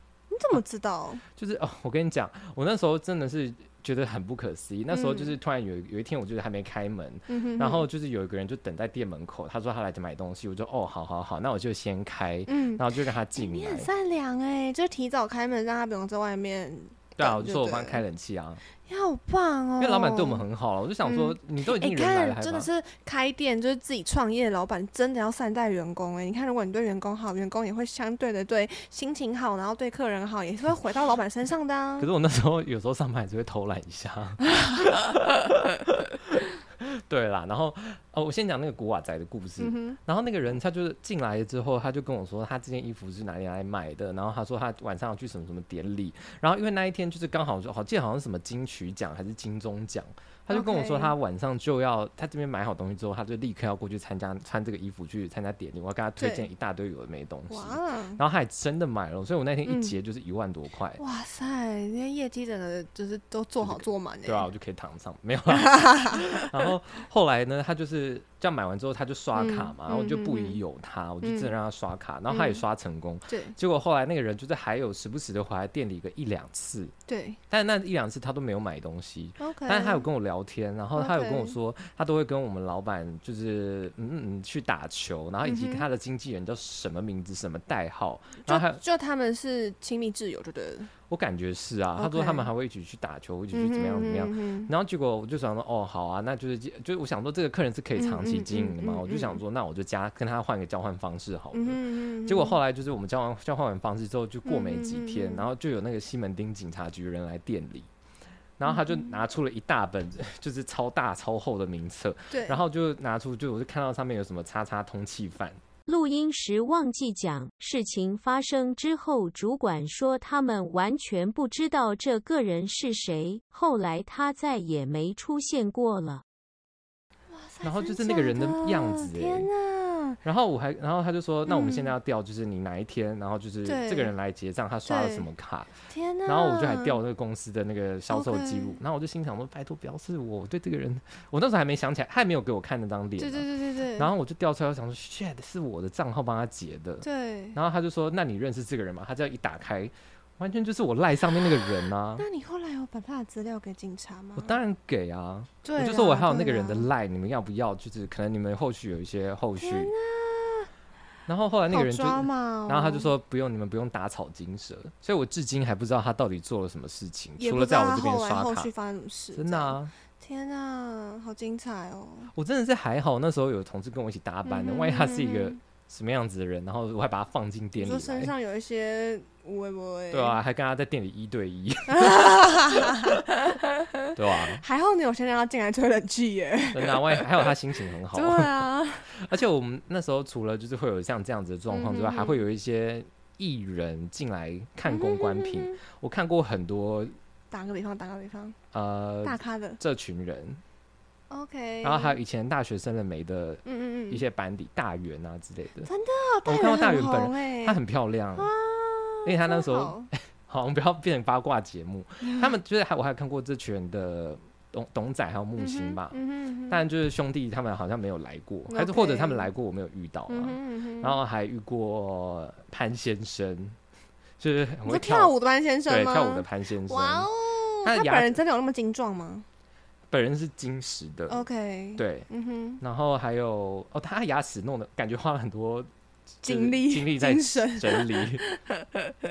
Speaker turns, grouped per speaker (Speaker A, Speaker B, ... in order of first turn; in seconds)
Speaker A: 0.3-1.2, 4.9-5.4, 7.3-7.9, 12.5-18.0, 18.8-20.4, 21.0-32.1, 34.5-35.0, 39.6-40.0, 50.5-51.1, 56.2-56.5, 57.5-58.2, 59.6-59.9, 61.0-64.5, 65.5-66.6, 69.3-70.6, 71.2-71.5, 72.3-72.6, 73.3-73.5, 77.1-77.4, 79.4-80.1, 81.0-81.5, 85.4-85.8, 88.4-90.9, 92.0-92.5, 93.5-94.7, 98.0-99.4, 101.5-102.6, 104.4-105.5, 108.7-109.2, 112.3-112.6, 127.3-130.2, 131.5-131.9, 133.6-134.1, 134.8-135.3, 135.9-137.0, 138.1-138.8, 143.2-144.1, 147.0-147.6, 151.6-154.6, 155.6-156.9, 159.6-160.7, 161.7-163.1, 167.4-172.3, 174.4-175.6, 177.8-180.4, 181.9-187.5, 188.1-189.1, 191.7-192.4, 194.8-195.8, 197.5-198.6, 199.2-199.8, 201.3-202.2, 203.6-204.2, 205.8-207.8, 208.3-210.1, 212.2-212.5, 215.6-216.8, 218.7-219.5, 220.3-221.2, 224.8-229.5, 231.3-232.8, 236.4-239.1
Speaker B: 1.3-13.9, 17.2-18.6, 19.8-22.7, 32.0-61.0, 63.6-76.9, 77.5-88.8, 91.1-107.9, 108.6-115.6, 127.6-129.5, 130.2-135.7, 136.2-152.2, 154.4-159.9, 161.3-168.7, 169.3-169.9, 172.3-178.3, 180.1-183.2, 184.1-184.6, 186.7-188.5, 189.1-197.2, 198.7-200.6, 201.8-205.9, 206.4-208.5, 209.2-216.2, 216.7-223.8, 224.4-225.3, 225.9-227.3, 227.8-228.4, 230.1-231.4, 232.0-232.3, 232.8-235.9, 236.4-238.4
Speaker C: 115.8-126.2